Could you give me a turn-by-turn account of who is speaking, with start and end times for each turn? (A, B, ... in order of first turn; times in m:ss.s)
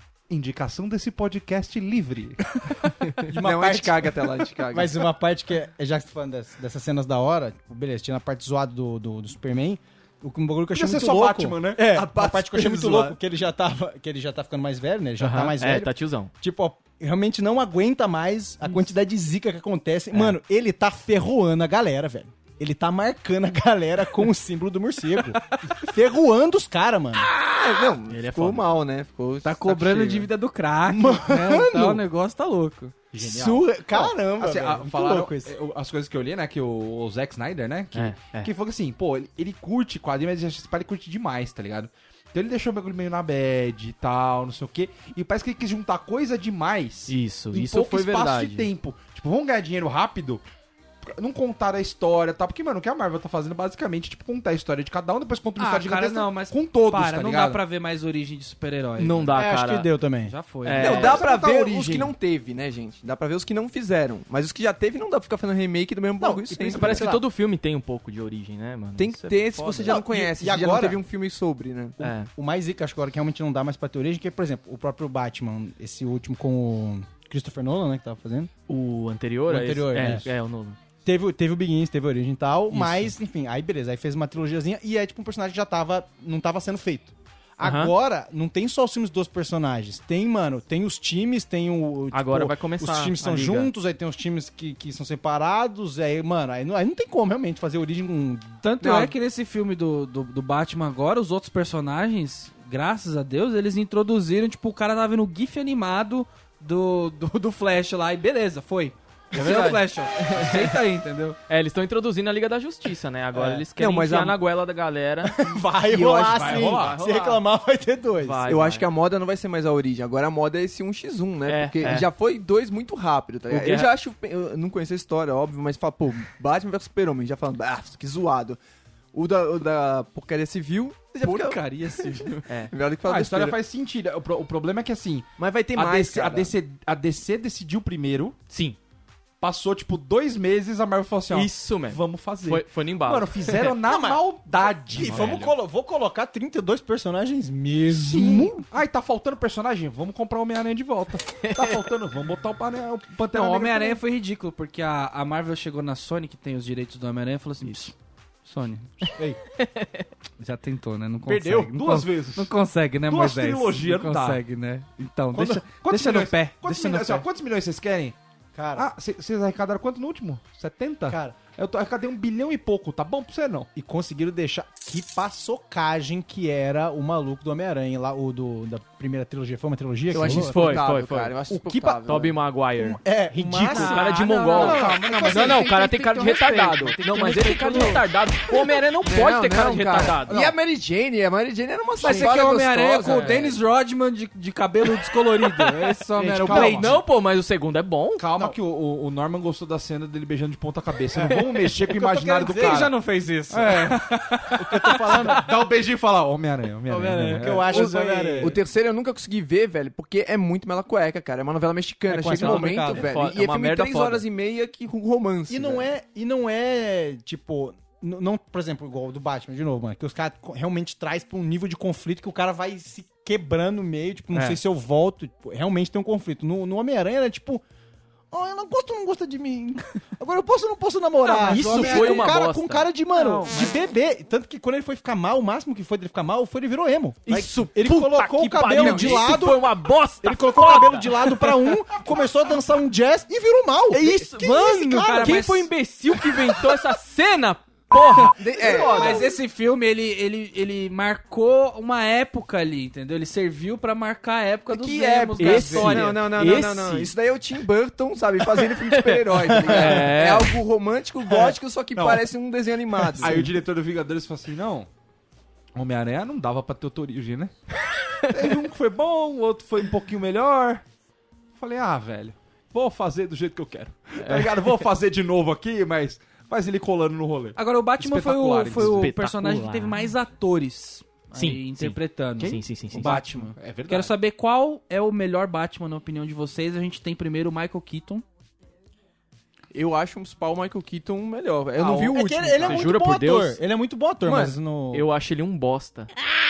0:00.3-0:02.6 A
0:03.3-0:27.3 B
0:03.4-0:05.0 C
0:10.7-0:12.0 A
0:11.8-0:13.2 C
0:15.2-0:16.3 D
0:25.5-0:25.8 E
0:27.2-0:30.3 C
0:28.1-0:28.7 D
0:29.4-0:33.0 E
0:30.9-0:32.0 B
0:33.1-0:50.4 A
0:33.2-0:35.5 B
0:37.9-0:38.5 D
0:47.1-0:48.7 D
0:51.1-0:57.6 A
0:55.6-0:59.4 E
0:59.0-0:59.9 D
0:59.4-1:00.3 B
1:00.3-1:01.1 E
1:00.6-1:01.2 D
1:00.8-1:07.2 C
1:00.8-1:02.1 A
1:06.2-1:07.2 B
1:06.7-1:10.0 D
1:09.0-1:12.0 C
1:09.9-1:11.0 B
1:12.0-1:18.5 B
1:12.0-1:12.3 D
1:18.7-1:20.8 D
1:19.5-1:20.3 B
1:21.0-1:38.6 B
1:22.7-1:23.1 D
1:27.6-1:27.9 D
1:32.1-1:33.7 D
1:38.6-1:51.4 E
1:38.8-1:39.1 C
1:49.3-1:50.8 D
1:51.5-1:55.4 D
1:53.8-1:54.4 C
1:55.2-1:58.4 B
1:55.9-1:56.7 C
1:56.0-1:57.0 A
1:56.5-1:57.4 D
1:58.2-1:58.9 D
1:58.5-2:08.6 C
2:01.5-2:02.1 D
2:03.5-2:03.9 D
2:09.1-2:13.6 C
2:11.2-2:12.4 E
2:13.0-2:18.4 A
2:15.4-2:16.5 C
2:18.5-2:18.8 D
2:19.4-2:25.6 A
2:21.3-2:23.4 D
2:23.6-2:24.2 B
2:24.8-2:28.6 B
2:27.9-2:34.0 A
2:31.4-2:31.8 D
2:33.3-2:39.1 E
2:39.6-2:40.1 D
2:40.4-2:47.3 E
2:41.3-2:41.7 B
2:41.7-2:42.6 A
2:43.1-2:44.4 A
2:45.4-2:45.6 B
2:45.4-2:48.2 A
2:48.6-2:48.9 B
2:48.8-2:53.7 A
2:51.1-2:51.4 B
2:53.8-3:00.8 B
3:00.1-3:02.4 C
3:00.2-3:01.4 D
3:01.5-3:02.2 B
3:02.0-3:10.4 D
3:02.8-3:04.1 B
3:03.5-3:08.0 E
3:04.6-3:05.6 B
3:04.8-3:05.2 A
3:09.0-3:13.6 C
3:12.0-3:17.0 E
3:12.0-3:12.3 B
3:15.5-3:18.2 D
3:16.2-3:17.0 A
3:18.2-3:24.2 A
3:21.8-3:22.9 B
3:22.5-3:25.4 E
3:24.6-3:25.5 B
3:25.1-3:28.0 A
3:26.9-3:27.5 E
3:27.1-3:28.6 B
3:27.7-3:35.9 C
3:28.2-3:28.5 E
3:32.1-3:33.1 B
3:32.4-3:34.2 D
3:35.5-3:47.6 B
3:48.3-3:59.6 B
3:51.4-3:52.9 D
3:51.4-3:52.2 E
3:53.2-3:53.6 E
3:57.3-4:01.7 D
3:58.8-3:59.3 C
4:00.2-4:05.4 B
4:03.9-4:08.3 D
4:04.4-4:05.8 E
4:08.2-4:09.3 C
4:08.2-4:16.2 E
4:08.9-4:09.2 A
4:14.7-4:23.4 C
4:15.4-4:17.1 D
4:18.8-4:20.6 D
4:19.7-4:20.0 B
4:22.0-4:22.3 A
4:23.2-4:24.9 A
4:23.2-4:23.5 B
4:25.8-4:27.5 A
4:28.3-4:30.8 A
4:31.6-4:39.1 A
4:34.2-4:34.8 D
4:37.6-4:48.2 E
4:38.7-4:40.1 D
4:41.3-4:43.2 D
4:43.0-4:44.2 A
4:49.7-4:52.9 C
4:51.8-4:55.1 B
4:52.6-4:53.6 D
4:54.2-4:54.6 C
4:54.9-4:56.1 D